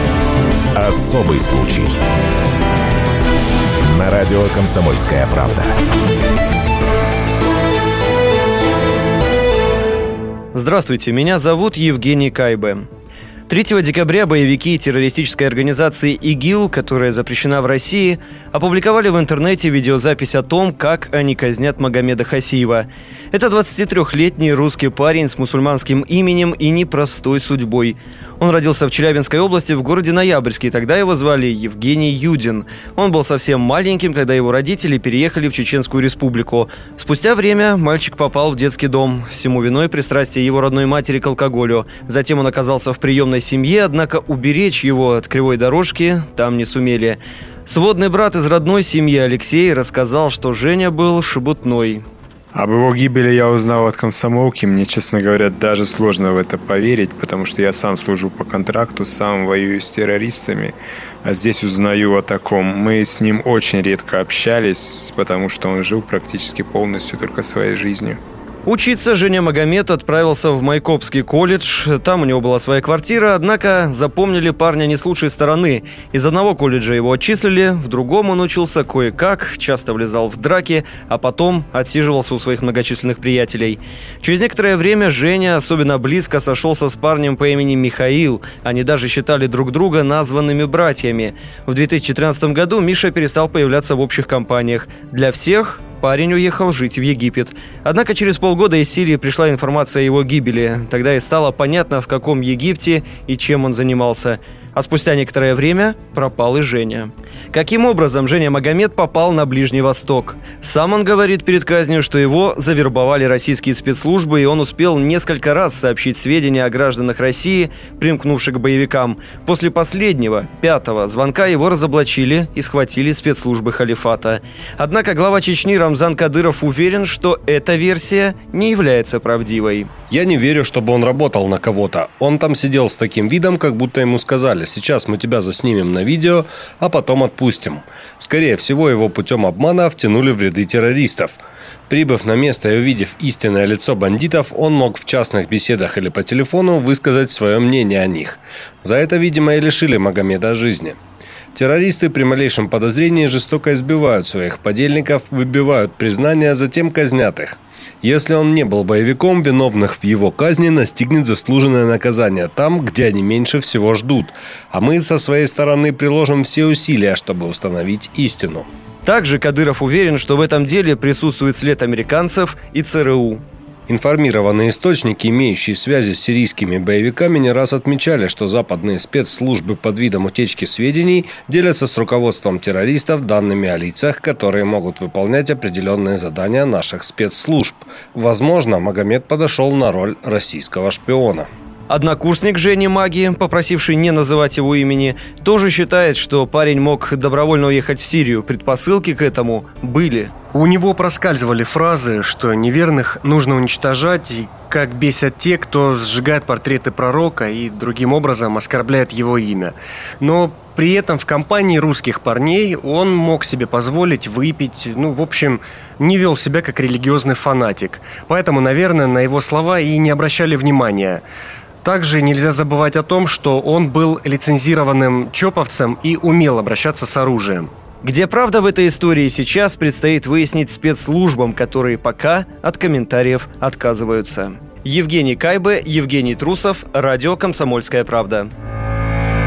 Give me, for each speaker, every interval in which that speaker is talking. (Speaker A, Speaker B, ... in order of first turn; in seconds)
Speaker A: 0.7-2.0, 3.9-5.8
Speaker B: 10.5-12.8, 13.5-52.0, 68.7-129.9, 169.0-173.4, 191.9-200.3, 228.0-238.5
Speaker C: 52.5-68.2
Speaker D: 130.1-151.0, 151.5-168.7, 173.9-191.5
Speaker E: 200.5-221.2, 221.8-227.7